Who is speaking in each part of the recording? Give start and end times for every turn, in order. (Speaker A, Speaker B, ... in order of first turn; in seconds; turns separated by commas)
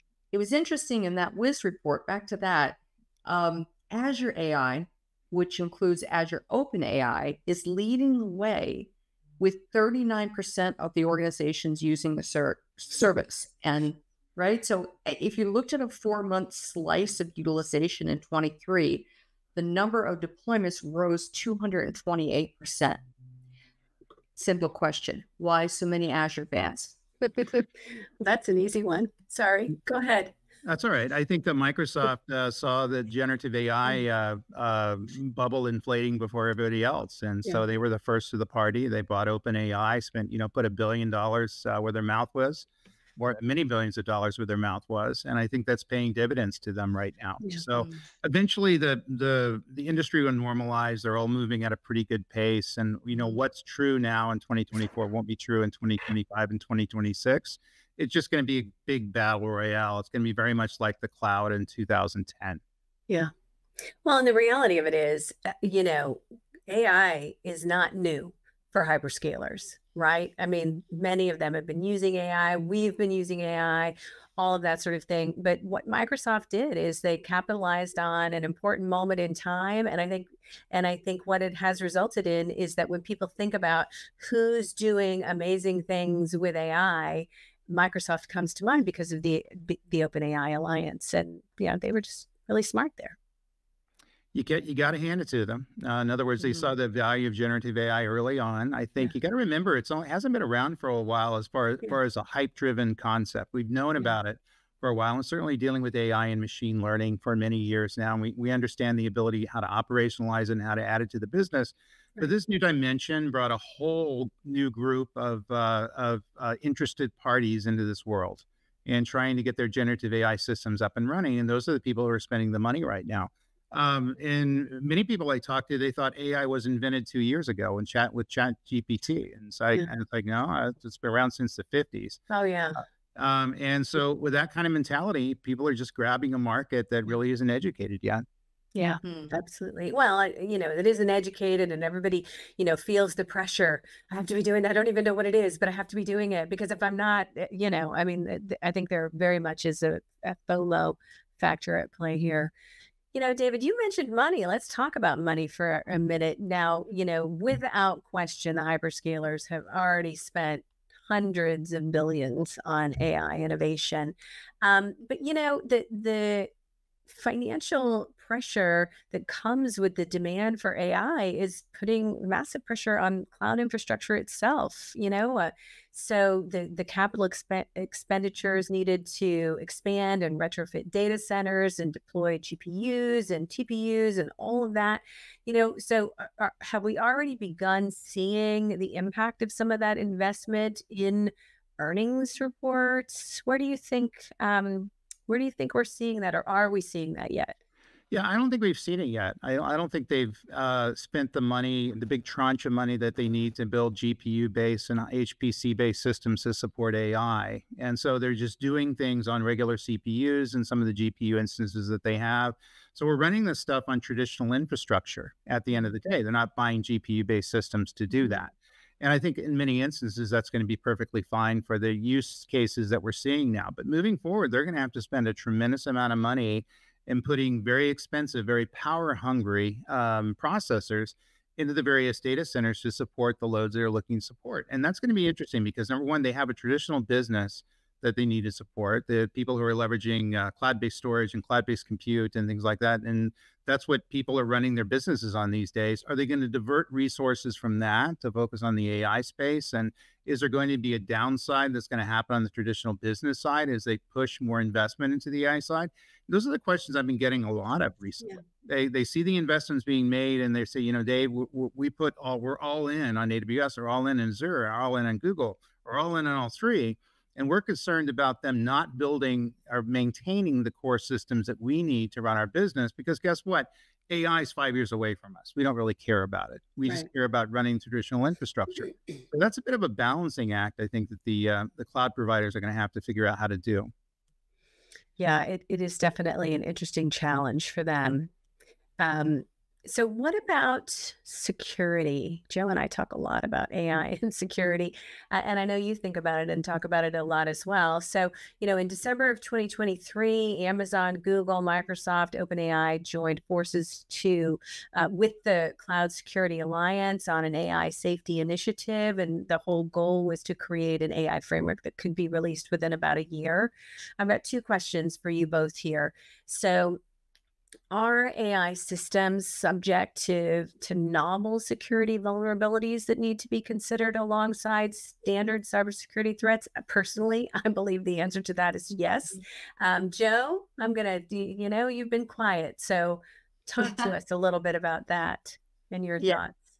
Speaker A: 0.3-23.0, Speaker A: 24.4-27.0, Speaker B: 27.2-27.7, Speaker B: 28.2-30.3, Speaker C: 30.6-62.6, Speaker B: 64.0-93.2, Speaker C: 94.3-132.2, Speaker B: 132.3-132.8, Speaker C: 133.2-138.2, Speaker B: 138.8-152.5, Speaker A: 139.0-139.3, Speaker B: 153.1-166.5, Speaker B: 167.1-197.5, Speaker C: 198.1-283.9, Speaker B: 285.2-288.3, Speaker B: 289.0-317.0, Speaker B: 317.9-336.6, Speaker A: 333.8-334.1